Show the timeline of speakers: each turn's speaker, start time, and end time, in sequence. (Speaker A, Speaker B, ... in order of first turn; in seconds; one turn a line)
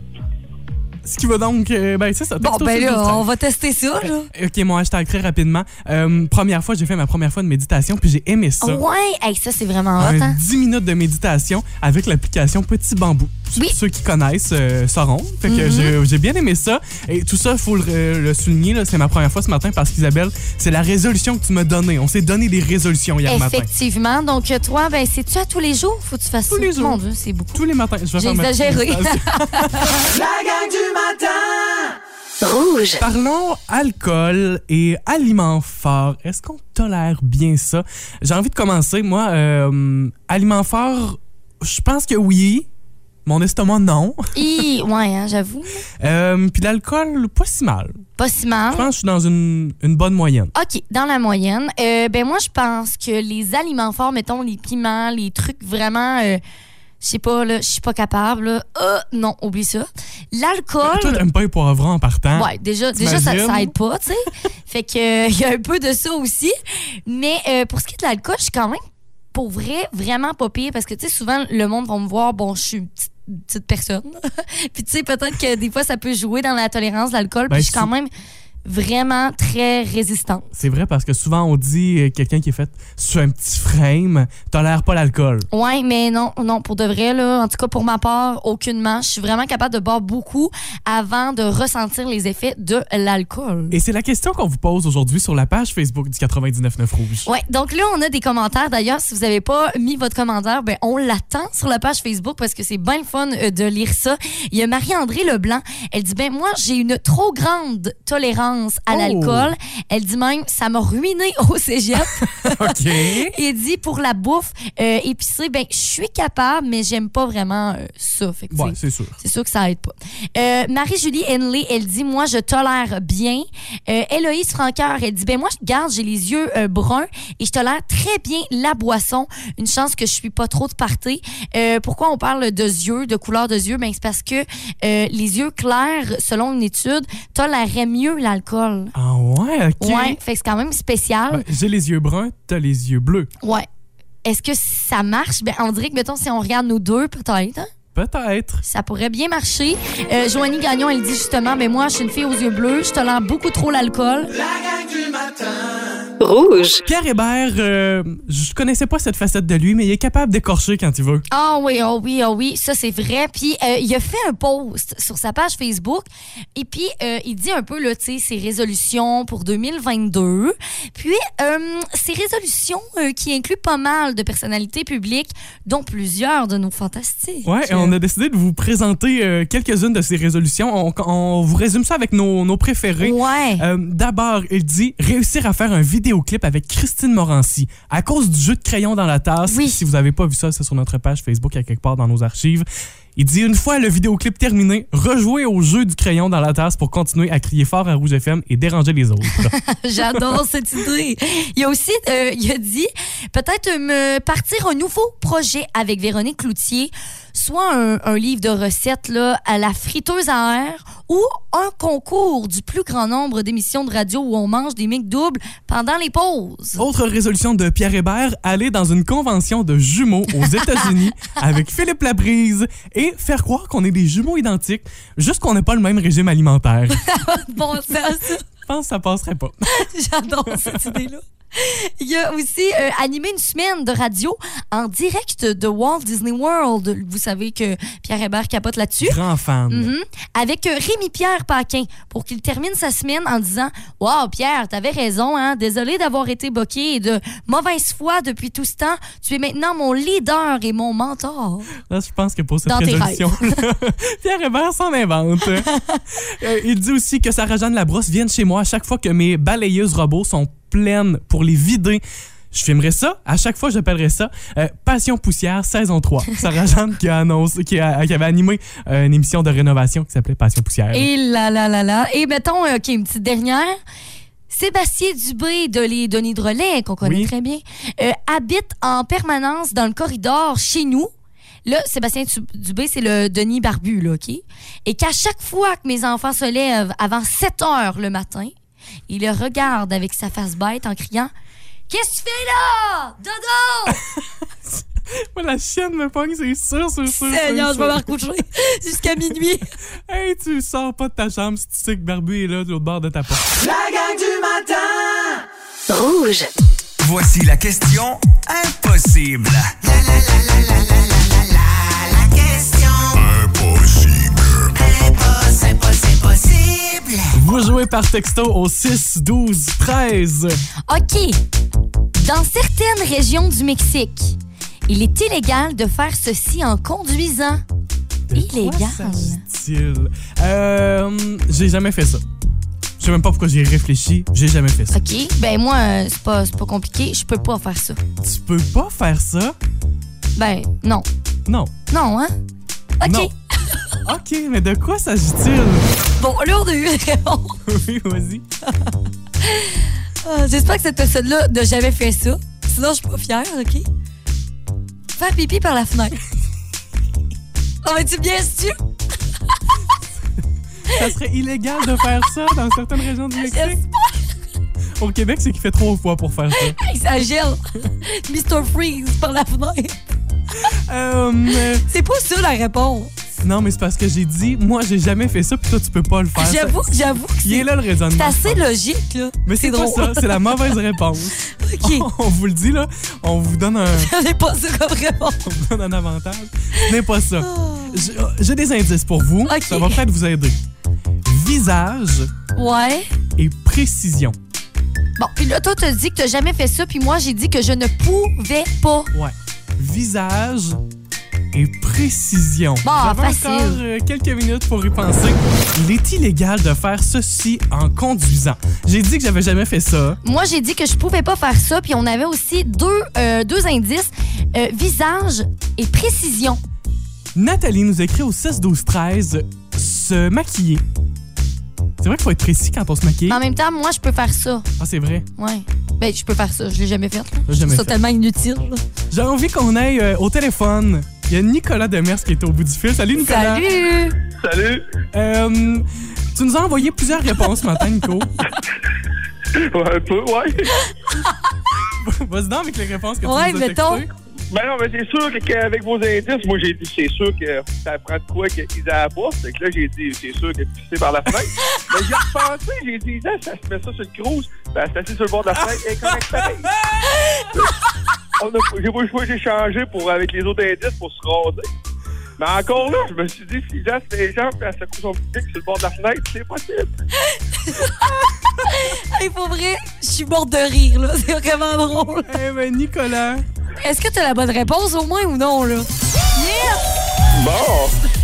Speaker A: 1.0-3.3
Speaker B: 2.4-4.3
Speaker A: 4.0-8.8
Speaker B: 8.6-10.4
Speaker A: 10.0-23.7
Speaker B: 15.5-16.0
Speaker B: 23.3-27.6
Speaker A: 26.5-27.0
Speaker A: 27.5-30.1
Speaker B: 28.2-30.1
Speaker C: 30.2-31.4
Speaker D: 32.4-33.0
Speaker A: 33.0-42.7
Speaker A: 43.3-44.5
Speaker B: 44.4-45.8
Speaker A: 46.0-48.0
Speaker B: 48.2-48.9
Speaker A: 48.7-50.5
Speaker B: 50.5-56.4
Speaker B: 57.0-61.2
Speaker A: 60.8-63.7
Speaker B: 62.4-66.5
Speaker B: 67.1-68.8
Speaker B: 69.3-78.1
Speaker A: 77.5-77.9
Speaker B: 78.7-80.5
Speaker A: 80.6-85.5
Speaker B: 85.5-93.8
Speaker A: 93.7-97.3
Speaker B: 97.3-112.7
Speaker A: 108.9-109.5
Speaker A: 112.0-113.3
Speaker B: 113.2-138.9
Speaker A: 118.5-119.2
Speaker A: 138.9-140.2
Speaker B: 139.8-141.4
Speaker A: 141.3-143.3
Speaker B: 143.4-143.7
Speaker B: 144.2-147.7
Speaker A: 147.9-148.6
Speaker B: 148.6-154.3
Speaker C: 154.5-155.7
Speaker D: 156.2-156.8
Speaker A: 156.8-161.2
Speaker B: 161.3-178.0
Speaker A: 177.4-199.5
Speaker B: 183.0-183.7
Speaker B: 189.5-189.8
Speaker B: 199.5-216.8
Speaker A: 216.8-227.1
Speaker B: 220.4-220.9
Speaker B: 226.9-228.4
Speaker A: 228.7-229.9
Speaker B: 229.7-239.2
Speaker A: 230.5-231.0
Speaker A: 239.0-239.9
Speaker B: 239.7-251.7
Speaker A: 251.9-271.1
Speaker B: 252.7-253.5
Speaker B: 255.6-256.0
Speaker B: 270.9-273.8
Speaker B: 274.5-281.1
Speaker A: 277.0-277.3
Speaker B: 281.7-288.5
Speaker B: 289.1-291.3
Speaker B: 291.9-294.0
Speaker A: 294.1-298.1
Speaker B: 297.1-299.7
Speaker A: 300.1-303.5
Speaker C: 303.6-305.4
Speaker D: 305.9-306.5
Speaker C: 307.0-317.3
Speaker A: 317.3-320.6
Speaker B: 320.9-321.4
Speaker B: 322.2-324.4
Speaker B: 324.9-327.6
Speaker A: 328.3-332.2
Speaker B: 328.3-329.4
Speaker A: 333.0-335.0
Speaker B: 334.9-338.0
Speaker A: 338.2-339.6
Speaker B: 340.4-341.1
Speaker A: 341.5-341.7
Speaker B: 341.9-342.4
Speaker B: 343.0-343.8
Speaker A: 343.0-343.3
Speaker A: 344.1-345.9
Speaker B: 346.2-347.6
Speaker A: 347.6-348.4
Speaker B: 349.4-353.9
Speaker B: 355.1-356.2
Speaker B: 357.8-358.8
Speaker A: 360.9-363.8
Speaker B: 363.4-364.2
Speaker A: 365.0-366.8
Speaker B: 366.6-370.0
Speaker A: 370.6-371.8
Speaker B: 371.6-373.1
Speaker A: 373.4-376.9
Speaker B: 376.4-380.7
Speaker A: 377.4-378.7
Speaker A: 379.5-384.1
Speaker B: 381.4-382.1
Speaker B: 383.9-385.5
Speaker A: 385.4-390.6
Speaker B: 387.4-388.1
Speaker B: 389.5-390.0
Speaker A: 391.2-392.3
Speaker B: 392.6-393.1
Speaker A: 393.4-394.4
Speaker B: 395.2-399.1
Speaker A: 399.1-400.8
Speaker A: 401.5-410.2
Speaker B: 402.8-403.8
Speaker B: 410.2-416.6
Speaker A: 417.4-420.8
Speaker A: 422.0-423.4
Speaker B: 423.3-424.7
Speaker A: 424.8-425.3
Speaker B: 425.4-428.8
Speaker A: 427.5-428.0
Speaker A: 429.1-433.7
Speaker B: 433.2-434.2
Speaker E: 434.2-434.9
Speaker A: 435.1-438.3
Speaker E: 439.6-440.8
Speaker A: 442.0-444.1
Speaker B: 443.2-444.1
Speaker E: 444.5-456.7
Speaker A: 456.0-457.5
Speaker E: 458.4-461.7
Speaker E: 462.4-466.9
Speaker B: 467.2-472.4
Speaker A: 472.2-473.5
Speaker B: 473.8-476.9
Speaker E: 477.3-478.0